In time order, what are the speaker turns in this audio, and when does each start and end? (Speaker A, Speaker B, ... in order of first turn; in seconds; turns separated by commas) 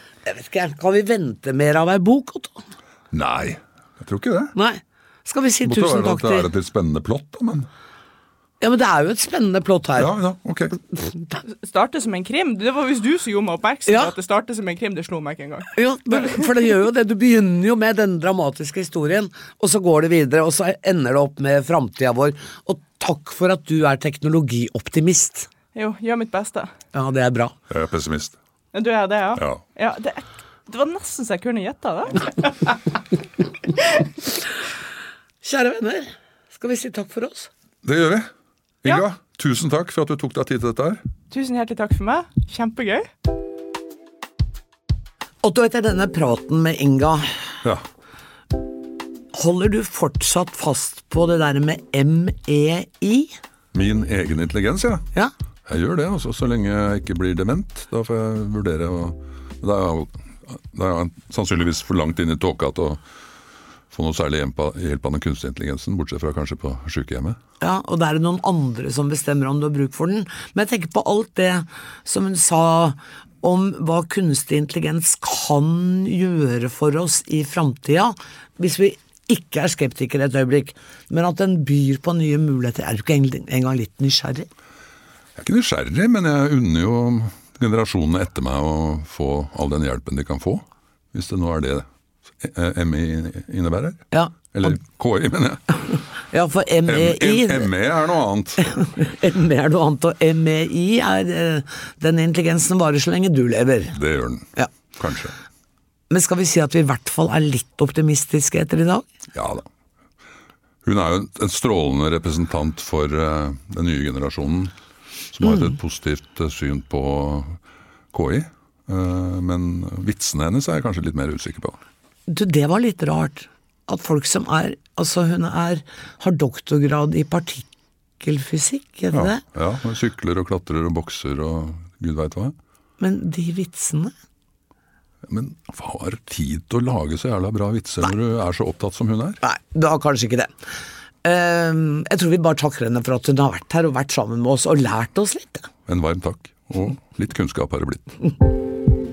Speaker A: 0.2-2.6, Speaker B: 3.1-4.5, Speaker A: 4.5-6.5, Speaker B: 5.7-7.7, Speaker A: 8.6-10.1, Speaker B: 10.0-10.7, Speaker A: 10.7-11.4, Speaker C: 11.5-16.4, Speaker A: 13.9-14.1, Speaker A: 15.8-25.5, Speaker C: 25.8-26.7, Speaker A: 26.9-27.6, Speaker B: 27.7-28.4, Speaker C: 28.7-33.0, Speaker B: 29.4-29.6, Speaker C: 33.7-34.1, Speaker A: 35.4-37.5, Speaker B: 37.8-38.3, Speaker B: 38.8-41.0, Speaker C: 41.3-43.1, Speaker A: 45.4-47.5, Speaker A: 49.3-53.4, Speaker B: 53.7-55.0, Speaker B: 55.7-63.0, Speaker B: 63.9-67.4, Speaker A: 67.6-84.5, Speaker B: 85.4-91.8, Speaker B: 92.4-96.0, Speaker A: 94.1-94.8, Speaker A: 96.3-97.7, Speaker B: 96.9-98.7, Speaker A: 98.6-104.0, Speaker B: 103.9-105.3, Speaker A: 106.1-109.1, Speaker B: 109.3-109.7, Speaker B: 110.8-114.7, Speaker B: 115.3-117.6, Speaker B: 118.1-121.8, Speaker A: 122.3-127.7, Speaker A: 128.2-129.4, Speaker B: 129.1-132.6, Speaker A: 133.0-134.1, Speaker B: 135.3-139.4, Speaker A: 139.4-140.6, Speaker A: 141.2-145.7, Speaker B: 145.9-148.3